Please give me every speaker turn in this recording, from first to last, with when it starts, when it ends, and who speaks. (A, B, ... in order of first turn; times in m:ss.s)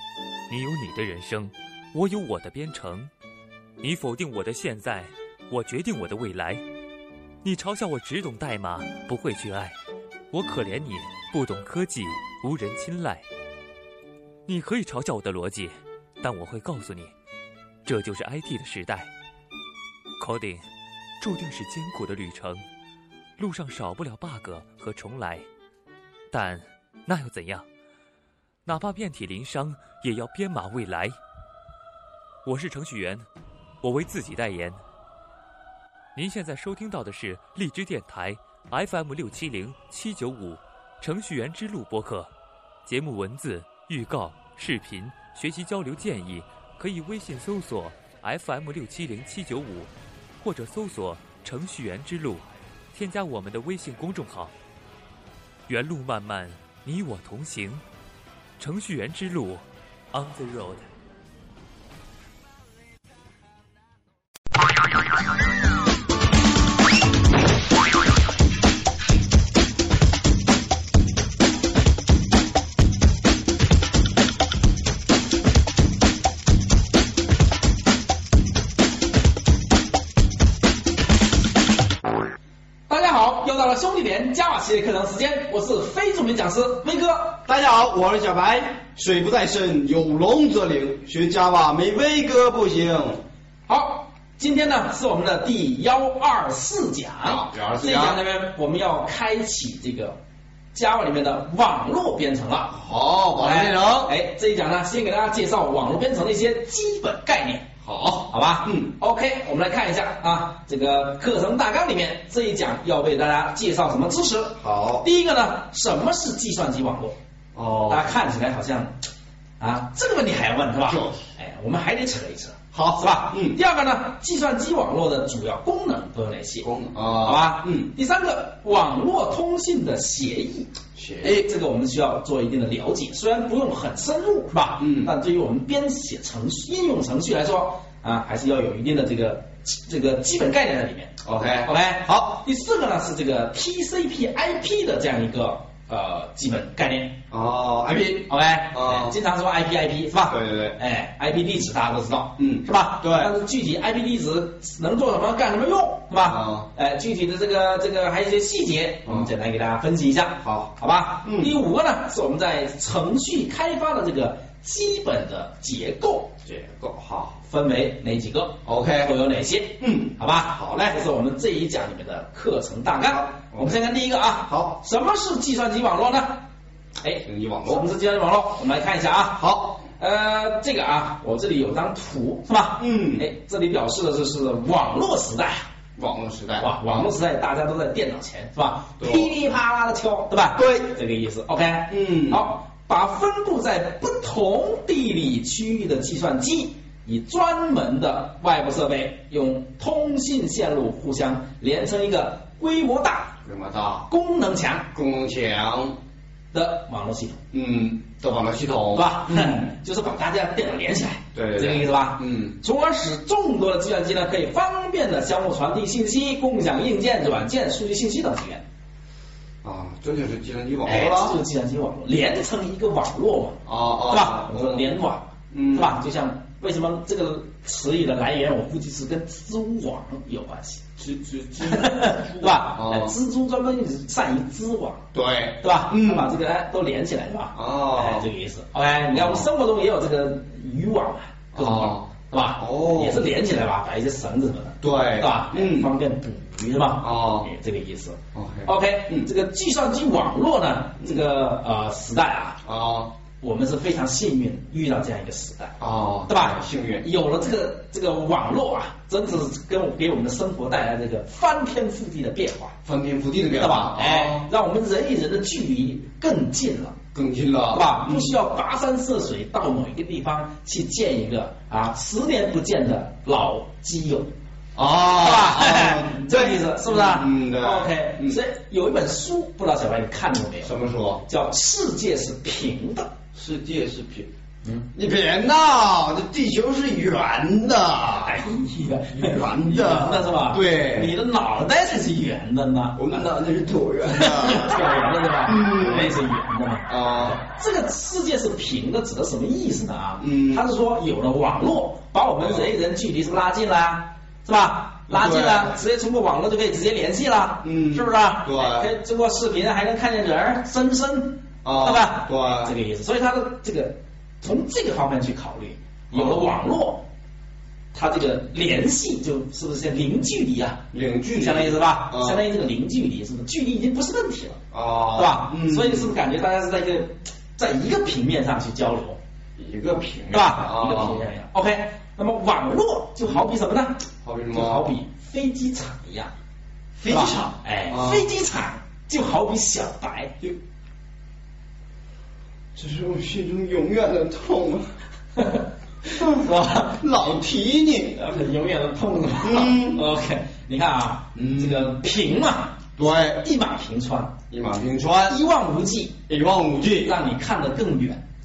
0:00.5-0:03.1 A
0:03.8-0:06.6 A
0:07.4-0:09.8 A
0:10.3-0:13.2 A
0:14.5-0:17.1 A
0:17.8-0:19.1 A
0:20.2-0:20.7 A
0:21.2-0:22.6 A
0:23.4-0:25.5 A
0:26.3-0:27.7 A
0:28.6-0:31.2 A
0:32.4-0:33.3 A
0:33.8-0:34.8 A
0:36.1-0:42.3 A
0:42.8-0:54.5 A
0:55.7-0:57.8 A
0:58.6-1:00.9 A
1:22.9-1:27.4 B
1:27.4-1:33.2 C
1:33.7-1:40.2 B
1:37.2-1:38.2 C
1:40.7-1:42.7 B
1:42.7-1:44.1 C
1:43.4-1:47.7 B
1:47.8-1:48.9 C
1:48.3-1:57.2 B
1:54.6-1:55.1 C
1:57.5-1:58.1 C
1:57.9-1:58.9 B
1:59.6-2:27.2 B
2:00.8-2:01.2 C
2:02.7-2:03.6 C
2:06.6-2:07.9 C
2:10.9-2:11.5 C
2:14.8-2:15.1 C
2:21.2-2:22.4 C
2:27.3-2:29.2 C
2:28.3-2:46.4 B
2:30.3-2:30.8 C
2:32.4-2:33.3 C
2:36.2-2:36.7 C
2:39.0-2:39.3 C
2:40.4-2:40.7 C
2:41.2-2:41.6 C
2:46.4-2:47.4 C
2:47.4-2:56.4 B
2:48.6-2:49.2 C
2:49.8-2:51.0 C
2:53.0-2:53.8 C
2:54.4-2:54.8 C
2:57.0-3:05.7 B
2:57.2-2:57.8 C
2:59.4-2:59.8 C
3:02.8-3:03.3 C
3:06.0-3:07.1 C
3:06.6-3:23.4 B
3:09.0-3:09.3 C
3:10.6-3:10.9 C
3:11.9-3:12.4 C
3:23.4-3:24.1 C
3:24.1-3:24.9 B
3:24.9-3:26.0 C
3:26.5-3:27.4 B
3:27.5-3:29.7 C
3:28.9-3:38.6 B
3:31.3-3:32.6 C
3:39.6-3:41.4 C
3:40.8-3:50.8 B
3:43.6-3:44.9 C
3:45.5-3:46.0 C
3:51.0-3:53.1 C
3:51.6-3:55.1 B
3:55.1-3:56.3 C
3:55.6-4:12.6 B
3:57.5-3:58.3 C
3:59.1-3:59.5 C
4:01.5-4:03.3 C
4:04.8-4:05.9 C
4:07.0-4:07.5 C
4:08.3-4:09.3 C
4:12.6-4:13.1 C
4:13.4-4:22.8 B
4:15.8-4:17.1 C
4:22.8-4:24.5 C
4:23.6-4:27.0 B
4:27.1-4:28.3 C
4:27.7-4:34.3 B
4:34.7-4:38.4 C
4:35.1-4:40.7 B
4:40.6-4:41.2 C
4:41.2-4:43.1 B
4:43.3-4:44.3 C
4:44.6-4:44.9 B
4:44.9-4:48.4 C
4:48.2-4:53.3 B
4:49.1-4:51.1 C
4:52.9-4:54.9 C
4:54.1-5:17.0 B
4:55.4-4:56.2 C
4:56.8-4:57.4 C
5:00.2-5:00.6 C
5:02.4-5:02.7 C
5:05.1-5:05.7 C
5:07.6-5:08.9 C
5:11.6-5:12.7 C
5:16.1-5:16.5 C
5:17.9-5:24.6 B
5:20.9-5:22.4 C
5:24.7-5:26.2 C
5:25.1-5:29.2 B
5:29.6-5:31.2 C
5:30.3-5:36.3 B
5:34.2-5:34.9 C
5:37.0-5:38.2 C
5:37.1-5:40.4 B
5:42.7-5:44.9 C
5:45.4-5:47.0 B
5:46.2-5:48.2 C
5:48.1-5:54.4 B
5:49.4-5:50.0 C
5:51.3-5:52.0 C
5:53.0-5:53.4 C
5:54.5-5:55.4 C
5:55.3-5:56.2 B
5:56.3-5:57.2 C
5:56.9-5:58.2 B